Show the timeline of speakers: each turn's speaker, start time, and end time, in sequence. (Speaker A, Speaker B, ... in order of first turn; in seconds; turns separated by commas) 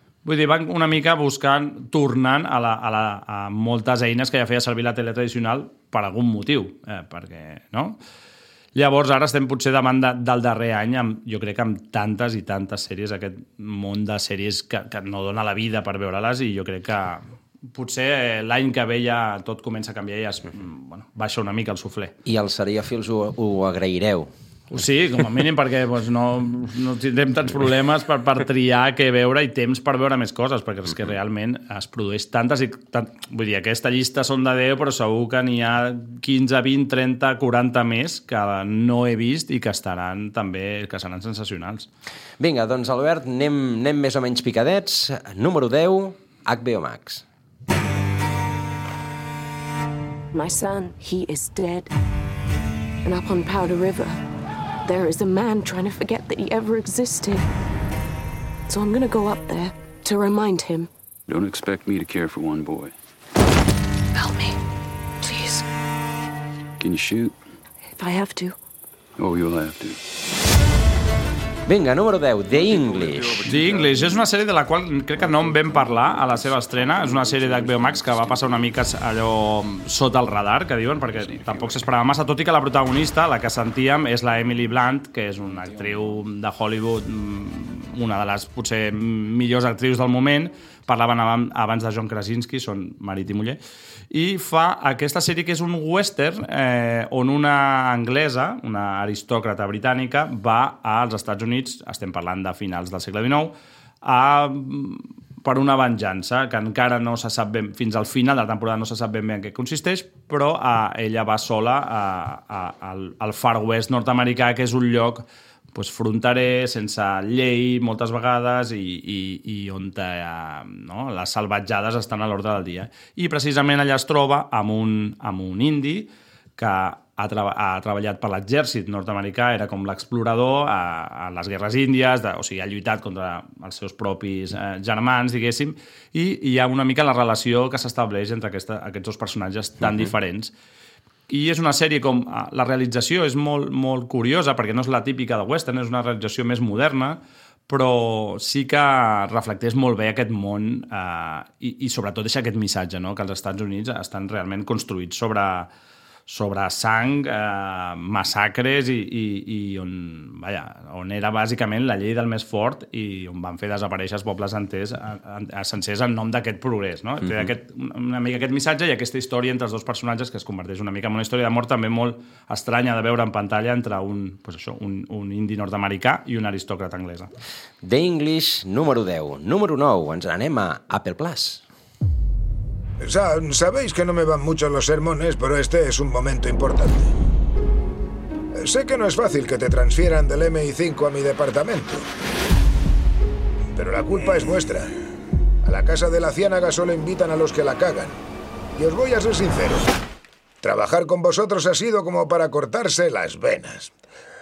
Speaker A: 0.2-8.0, Speaker A: 8.7-22.1, Speaker B: 22.2-24.3, Speaker A: 24.7-41.9, Speaker B: 42.4-47.2, Speaker C: 50.3-51.9, Speaker C: 53.0-54.2, Speaker C: 54.8-57.5, Speaker C: 58.7-60.9, Speaker D: 61.3-62.9, Speaker C: 64.2-64.5, Speaker C: 65.2-65.6, Speaker D: 66.8-67.3, Speaker C: 68.0-68.6, Speaker D: 69.2-70.0, Speaker B: 71.7-73.5, Speaker A: 73.4-93.6, Speaker A: 94.1-140.5, Speaker A: 141.3-155.7, Speaker A: 156.3-177.3, Speaker B: 177.8-181.6, Speaker E: 183.0-187.1, Speaker E: 188.5-192.1, Speaker E: 193.7-194.9, Speaker E: 195.6-198.2, Speaker E: 198.8-199.9, Speaker E: 200.6-203.9